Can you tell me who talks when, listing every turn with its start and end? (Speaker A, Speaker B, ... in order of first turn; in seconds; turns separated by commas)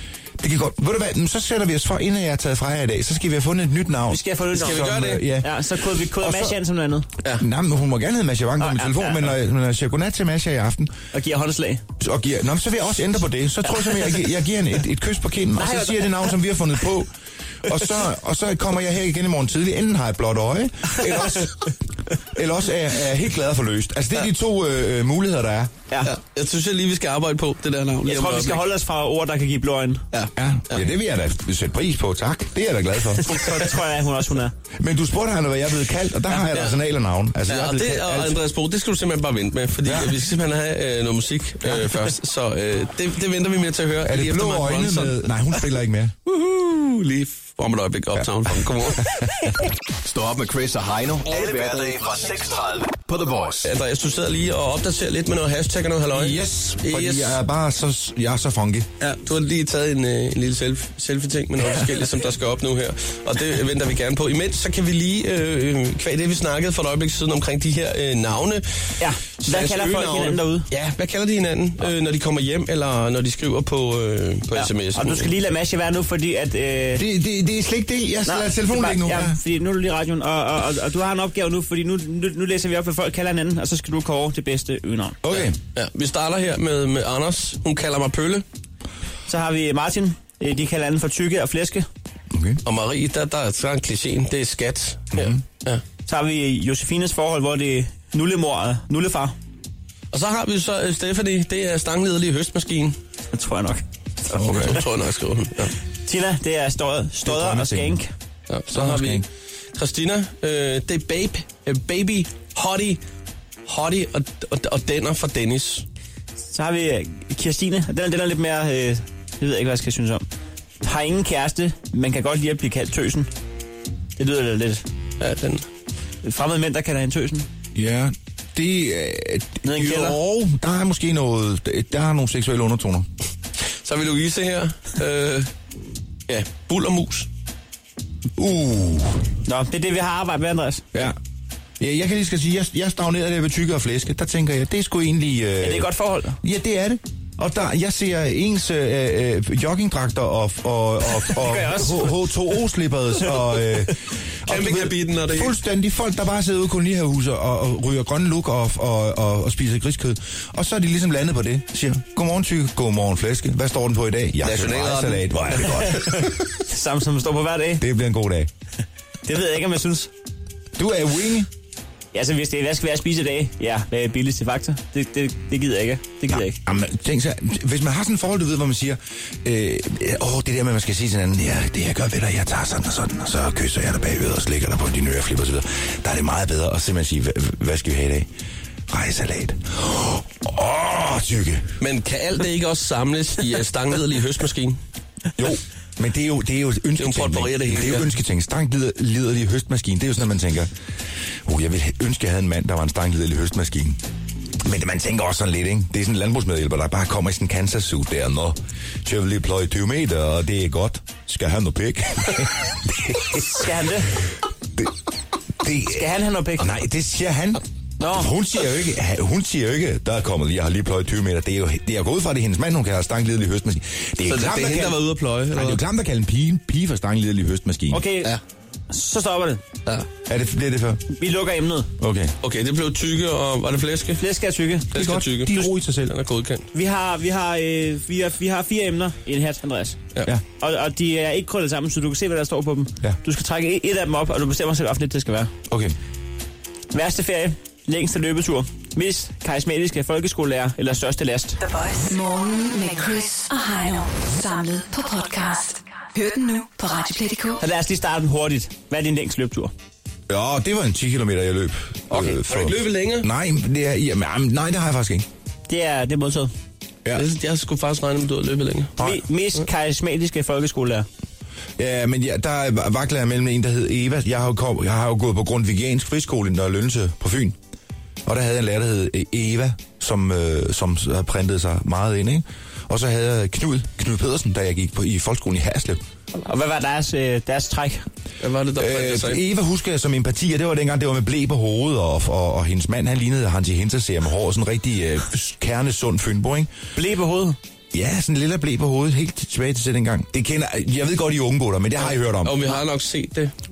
Speaker A: 0.4-6.6, Speaker B: 4.1-7.1, Speaker C: 4.6-5.2, Speaker A: 7.3-10.9, Speaker B: 8.6-9.3, Speaker B: 11.1-11.8, Speaker A: 12.0-17.1, Speaker B: 15.6-16.4, Speaker A: 17.6-21.7, Speaker A: 22.3-25.7, Speaker C: 26.1-28.6, Speaker B: 28.1-30.0, Speaker C: 30.1-30.9, Speaker A: 30.4-33.3, Speaker B: 33.2-34.5, Speaker A: 34.8-38.4, Speaker C: 36.3-36.8, Speaker C: 37.5-45.7, Speaker A: 39.8-40.3, Speaker A: 44.0-46.1, Speaker C: 46.3-49.1, Speaker D: 50.0-53.7, Speaker C: 51.3-51.9, Speaker C: 53.6-57.4, Speaker A: 56.1-58.9, Speaker C: 59.0-68.7, Speaker B: 69.0-70.7, Speaker C: 69.4-75.3, Speaker B: 74.5-77.0, Speaker A: 77.0-79.4, Speaker B: 78.3-85.2, Speaker A: 85.2-85.6, Speaker C: 85.3-88.5, Speaker B: 89.3-91.9, Speaker A: 92.3-92.6, Speaker C: 92.7-95.8, Speaker A: 95.1-95.4, Speaker B: 96.1-99.3, Speaker C: 100.1-103.0, Speaker B: 103.3-104.7, Speaker A: 104.3-104.8, Speaker C: 104.4-105.8, Speaker B: 106.1-108.1, Speaker A: 107.2-108.0, Speaker C: 108.5-113.0, Speaker A: 108.7-109.3, Speaker C: 113.7-115.8, Speaker B: 116.5-120.2, Speaker B: 120.8-123.3, Speaker B: 124.2-124.8, Speaker C: 125.2-125.7, Speaker B: 126.2-127.5, Speaker A: 127.8-133.1, Speaker B: 129.6-130.2, Speaker C: 133.8-135.5, Speaker C: 136.3-137.3, Speaker A: 138.4-139.2, Speaker B: 139.5-140.8, Speaker A: 141.8-166.3, Speaker B: 145.6-146.4, Speaker B: 151.2-152.2, Speaker C: 154.5-155.6, Speaker C: 164.4-166.2, Speaker B: 165.7-167.8, Speaker A: 167.8-168.5, Speaker B: 169.3-170.1, Speaker A: 170.8-171.5, Speaker B: 172.1-176.6, Speaker A: 176.3-188.3, Speaker A: 188.9-191.7, Speaker C: 191.8-194.8, Speaker A: 195.4-200.7, Speaker C: 197.0-198.1, Speaker A: 201.4-204.0, Speaker A: 204.6-213.7, Speaker B: 213.5-214.2, Speaker A: 215.6-228.0, Speaker B: 215.8-216.7, Speaker B: 218.0-218.3, Speaker C: 224.2-225.8, Speaker B: 227.9-228.4, Speaker B: 228.9-229.6, Speaker A: 230.3-231.1, Speaker B: 231.1-231.9, Speaker A: 232.0-232.3, Speaker C: 232.4-234.2, Speaker B: 234.2-234.9, Speaker A: 234.9-236.2, Speaker C: 234.9-236.7, Speaker B: 236.7-240.0, Speaker B: 240.6-245.5, Speaker A: 245.7-245.9, Speaker B: 246.9-251.6, Speaker E: 251.6-257.6, Speaker B: 257.6-259.7, Speaker A: 260.3-265.3, Speaker C: 262.1-263.3, Speaker B: 265.7-266.5, Speaker C: 267.1-268.9, Speaker B: 269.0-271.1, Speaker A: 271.8-277.6, Speaker A: 278.2-286.0, Speaker B: 286.4-288.1, Speaker C: 288.4-289.4, Speaker A: 288.8-296.7, Speaker B: 296.9-297.6, Speaker A: 297.9-302.8, Speaker C: 302.0-303.5